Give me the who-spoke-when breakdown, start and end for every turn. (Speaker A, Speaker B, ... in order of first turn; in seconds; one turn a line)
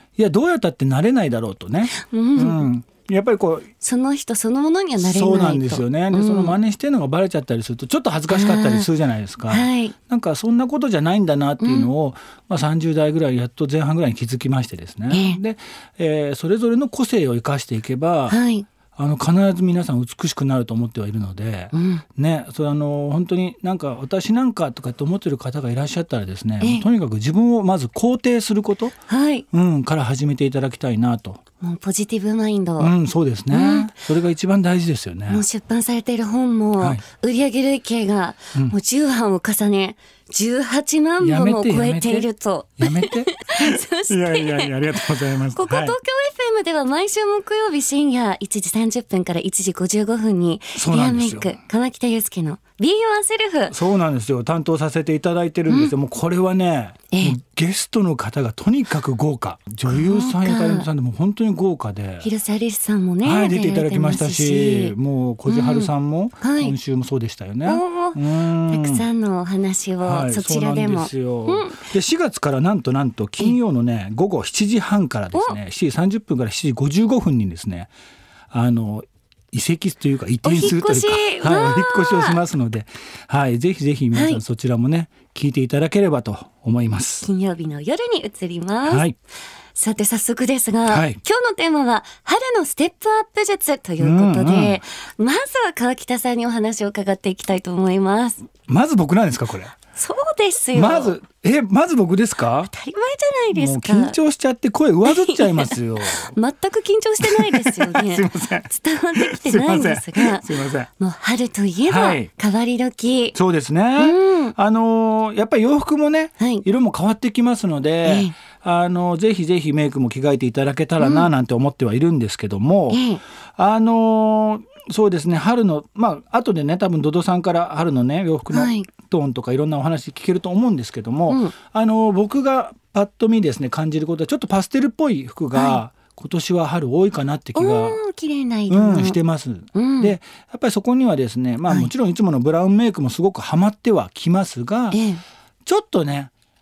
Speaker A: 0.2-3.7
Speaker B: 1.9-2.7
Speaker B: 3.8-6.6
Speaker A: 5.0-18.4
Speaker B: 8.3-8.9
Speaker B: 9.5-9.9
Speaker B: 11.6-11.9
Speaker B: 15.1-15.4
Speaker B: 18.3-18.7
Speaker A: 19.0-28.9
Speaker B: 21.7-22.0
Speaker B: 26.6-26.9
Speaker B: 29.1-29.4
Speaker A: 29.5-31.4
Speaker B: 31.6-32.9
Speaker A: 32.8-35.5
Speaker B: 33.5-33.9
Speaker B: 35.3-53.8
Speaker A: 41.2-46.0
Speaker A: 50.8-51.5
Speaker A: 53.7-62.3
Speaker B: 57.1-57.4
Speaker B: 59.9-60.9
Speaker B: 62.2-65.0
Speaker A: 63.2-69.1
Speaker B: 65.5-66.8
Speaker B: 67.7-71.9
Speaker A: 70.0-77.9
Speaker A: 78.5-87.3
Speaker B: 80.4-82.4
Speaker B: 84.1-84.4
Speaker B: 87.2-89.1
Speaker A: 88.8-89.2
Speaker B: 89.8-98.5
Speaker A: 90.9-91.2
Speaker A: 94.0-94.8
Speaker A: 98.7-99.8
Speaker B: 100.0-101.2
Speaker A: 100.7-102.7
Speaker B: 102.7-104.2
Speaker A: 103.5-106.3
Speaker B: 105.1-113.4
Speaker A: 107.2-110.9
Speaker A: 111.9-112.3
Speaker A: 113.3-123.0
Speaker B: 114.0-114.5
Speaker B: 116.4-116.7
Speaker B: 118.0-118.4
Speaker B: 121.0-121.3
Speaker B: 122.9-123.2
Speaker A: 123.6-138.0
Speaker B: 128.5-128.9
Speaker B: 131.3-131.5
Speaker B: 135.6-135.8
Speaker B: 137.6-139.2
Speaker A: 138.7-145.0
Speaker B: 139.7-140.2
Speaker B: 144.9-145.2
Speaker A: 145.7-146.3